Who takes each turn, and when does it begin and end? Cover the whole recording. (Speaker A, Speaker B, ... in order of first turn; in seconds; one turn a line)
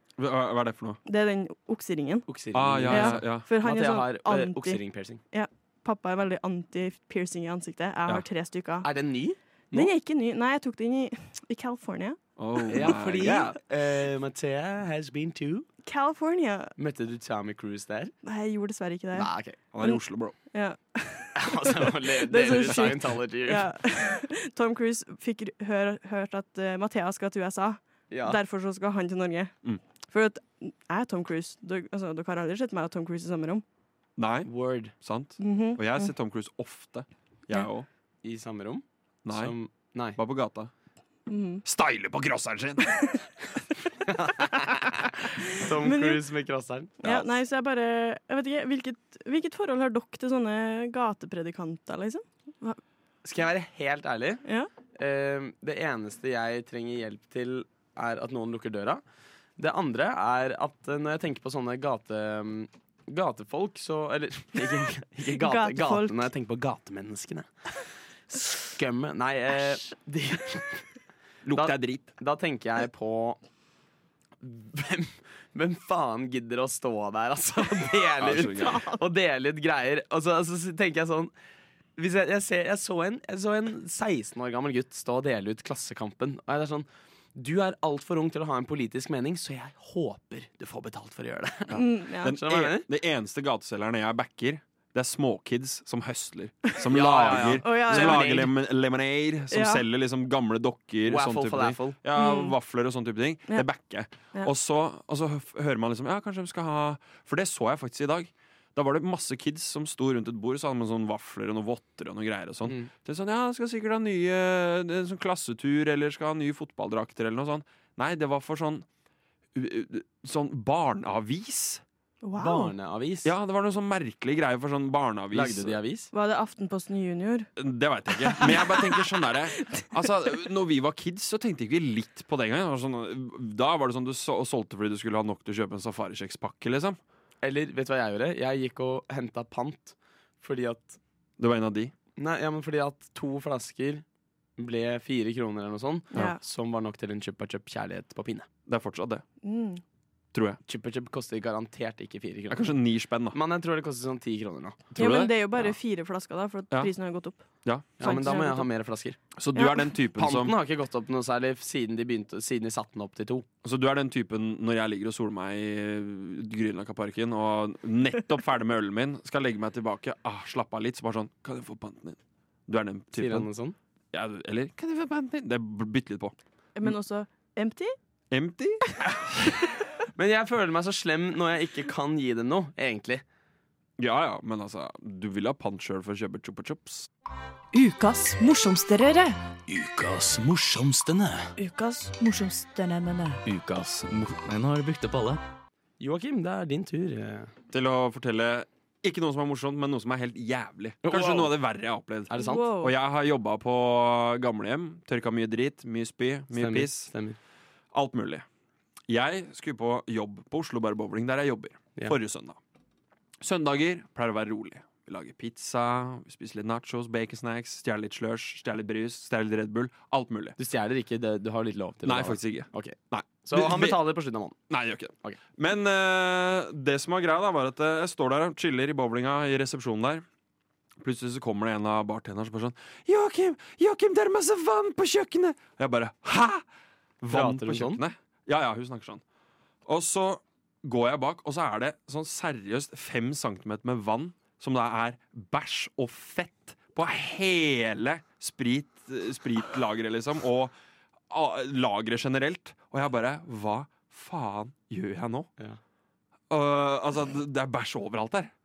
Speaker A: 0.2-1.0
Speaker B: 1.1-2.3
Speaker C: 2.3-5.2
Speaker A: 2.5-3.5
Speaker B: 2.9-4.8
Speaker B: 5.3-8.9
Speaker C: 8.8-9.9
Speaker B: 9.7-12.2
Speaker A: 12.4-13.6
Speaker C: 12.7-15.7
Speaker B: 15.8-16.7
Speaker C: 16.8-18.1
Speaker B: 18.2-19.3
Speaker C: 19.1-19.6
Speaker A: 19.7-20.3
Speaker B: 19.8-29.5
Speaker C: 21.3-23.7
Speaker C: 28.1-28.4
Speaker B: 30.1-33.6
Speaker A: 34.2-37.9
Speaker C: 34.5-34.9
Speaker B: 35.4-36.1
Speaker C: 38.2-40.2
Speaker A: 39.2-39.5
Speaker A: 40.1-40.7
Speaker B: 41.3-41.6
Speaker A: 41.6-43.2
Speaker C: 44.0-47.2
Speaker B: 45.6-46.2
Speaker B: 47.0-52.8
Speaker C: 53.2-54.4
Speaker B: 54.4-54.7
Speaker C: 54.9-59.0
Speaker C: 59.6-67.8
Speaker B: 65.3-66.3
Speaker C: 68.7-70.9
Speaker A: 71.4-72.1
Speaker C: 71.5-73.4
Speaker C: 74.4-81.3
Speaker A: 78.2-78.8
Speaker B: 78.5-79.0
Speaker C: 82.0-92.9
Speaker B: 91.7-92.4
Speaker A: 91.7-118.8
Speaker C: 96.9-98.5
Speaker B: 97.3-98.4
Speaker B: 99.5-99.8
Speaker C: 101.0-102.0
Speaker B: 102.1-102.5
Speaker A: 119.5-121.8
Speaker B: 122.2-122.7
Speaker C: 122.4-123.3
Speaker A: 123.2-125.8
Speaker C: 125.3-126.1
Speaker B: 126.1-127.5
Speaker A: 127.6-137.0
Speaker B: 128.2-129.1
Speaker C: 137.4-141.0
Speaker A: 141.4-141.9
Speaker C: 142.2-144.0
Speaker C: 144.6-148.5
Speaker B: 146.1-146.4
Speaker A: 148.7-149.2
Speaker B: 149.4-149.8
Speaker A: 150.3-150.6
Speaker C: 150.7-152.7
Speaker A: 152.5-153.4
Speaker C: 153.3-154.9
Speaker A: 154.9-155.6
Speaker B: 155.0-157.4
Speaker A: 157.6-158.2
Speaker C: 158.0-159.2
Speaker B: 158.0-158.7
Speaker A: 159.3-160.5
Speaker B: 159.5-159.9
Speaker C: 160.2-163.4
Speaker A: 163.6-173.5
Speaker C: 173.1-173.8
Speaker A: 174.1-176.9
Speaker B: 176.8-177.9
Speaker A: 178.3-179.8
Speaker C: 180.1-183.2
Speaker A: 184.0-187.1
Speaker D: 187.7-189.3
Speaker E: 189.7-191.5
Speaker D: 191.6-193.4
Speaker E: 193.4-195.4
Speaker C: 196.0-197.5
Speaker A: 197.7-207.1
Speaker C: 201.0-201.5
Speaker C: 202.3-202.7
Speaker B: 202.3-202.9
Speaker C: 206.5-207.4
Speaker A: 207.9-208.4
Speaker A: 209.1-212.6
Speaker A: 213.4-220.6
Speaker C: 220.6-224.6
Speaker A: 222.0-224.0
Speaker A: 224.7-230.2
Speaker A: 231.0-236.6
Speaker A: 237.2-239.2
Speaker C: 237.3-238.0
Speaker A: 239.8-250.7
Speaker A: 251.3-255.5
Speaker A: 256.5-258.5